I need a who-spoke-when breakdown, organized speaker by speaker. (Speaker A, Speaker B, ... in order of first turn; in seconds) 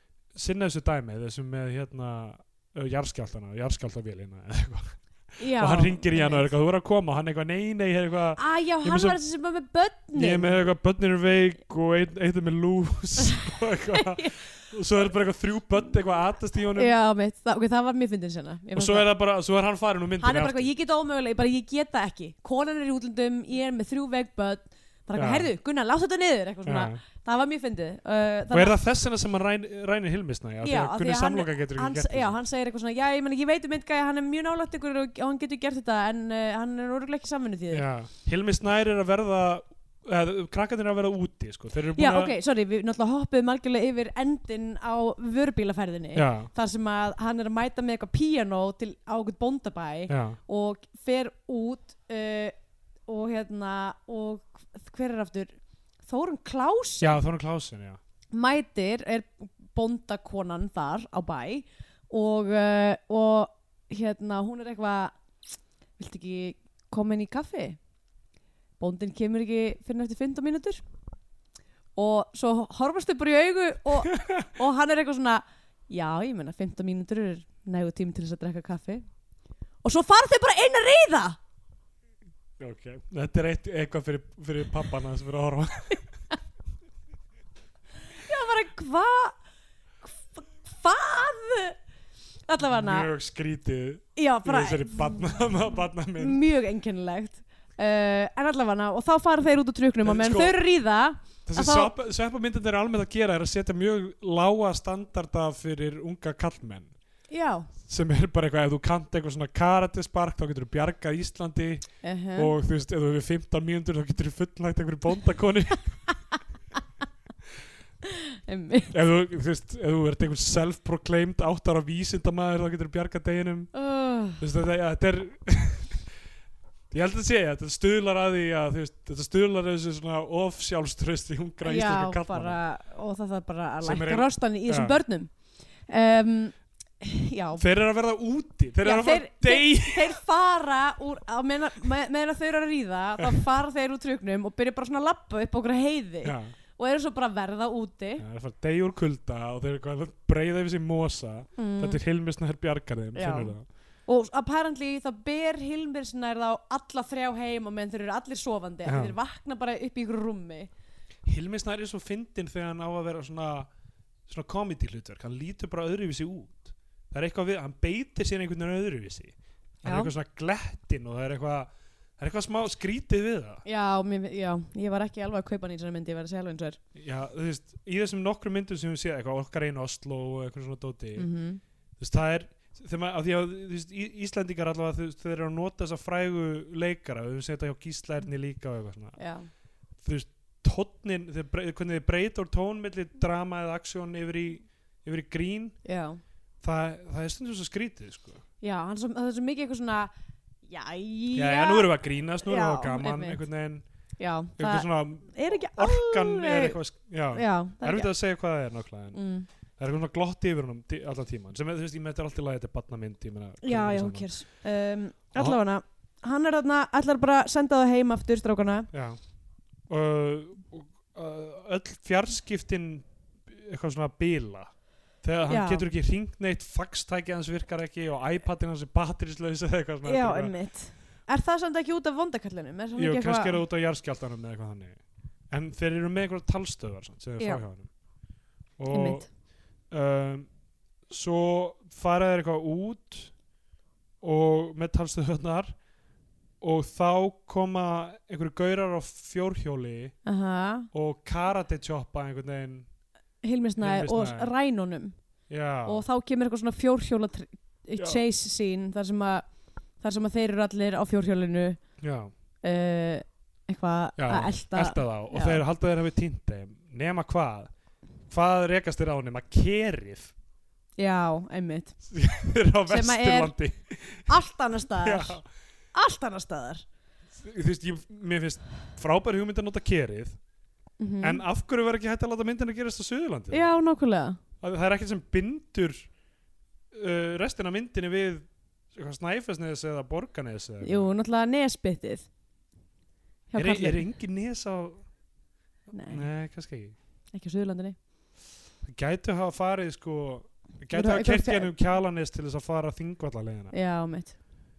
Speaker A: 0.3-9.2, 10.1-16.9, 18.7-20.7, 25.1-25.5, 26.6-27.0, 28.5-32.4, 37.7-42.3, 46.1-46.5, 50.1-50.4, 57.0-58.0, 74.1-74.5, 82.6-86.0, 92.7-96.4, 100.0-100.6, 101.5-106.9, 107.8-115.9, 118.9-123.7, 124.4-126.1, 126.9-132.6, 133.8-135.0, 137.6-140.2, 146.2-146.5, 148.2-153.7, 158.8-159.2, 161.2-163.7, 164.3-173.6, 176.9-181.3, 182.0-189.2, 190.0-195.8, 196.6-198.4, 201.3-203.8, 204.6-209.2, 209.8-214.3, 218.9-219.2, 219.9-230.6, 233.0-237.9, 238.8-239.3, 239.9-240.5, 241.1-243.3, 244.2-245.8, 246.6-250.2, 250.9-252.9, 253.8-254.5, 255.5-256.0, 258.0-258.2, 262.0-262.3, 264.2-267.7, 268.3-270.3, 272.1-274.3, 275.0-275.4, 277.3-280.4, 281.2-283.7, 284.6-286.1, 286.9-291.1, 293.6-295.0, 296.1-296.9, 298.8-303.7
Speaker B: 5.4-6.5, 8.4-10.6, 13.9-14.4, 16.8-19.1, 20.2-28.8, 30.6-37.9, 41.9-52.5, 53.1-57.2, 58.3-65.2, 66.0-67.8, 68.8-70.8, 72.0-79.0, 79.8-81.4, 88.2-89.3, 90.0-91.8, 92.5-93.1, 94.2-95.5, 96.2-101.9, 107.3-107.7, 112.0-112.5, 118.0-118.9, 123.7-124.4, 131.6-135.3, 135.9-137.6, 138.8-148.2, 151.6-152.0, 153.1-153.5, 154.1-160.7, 169.8-170.1, 173.6-176.8, 181.2-181.6, 189.2-189.5, 195.8-196.2, 198.6-200.1, 200.7-201.9, 202.4-203.4, 204.2-206.8, 207.3-208.1, 209.1-209.5, 213.6-218.9, 225.5-225.8, 230.0-233.6, 237.4-237.6, 238.9-239.3, 250.2-250.9, 253.4-255.2, 255.8-259.5, 260.0-261.8, 262.6-265.6, 271.0-271.9, 272.9-273.5, 274.3-275.4, 275.9-276.8, 281.0-281.4, 283.5-284.4, 290.8-292.3, 293.5-294.1, 295.9-296.3, 297.3-298.0, 300.9-301.7, 303.7-304.4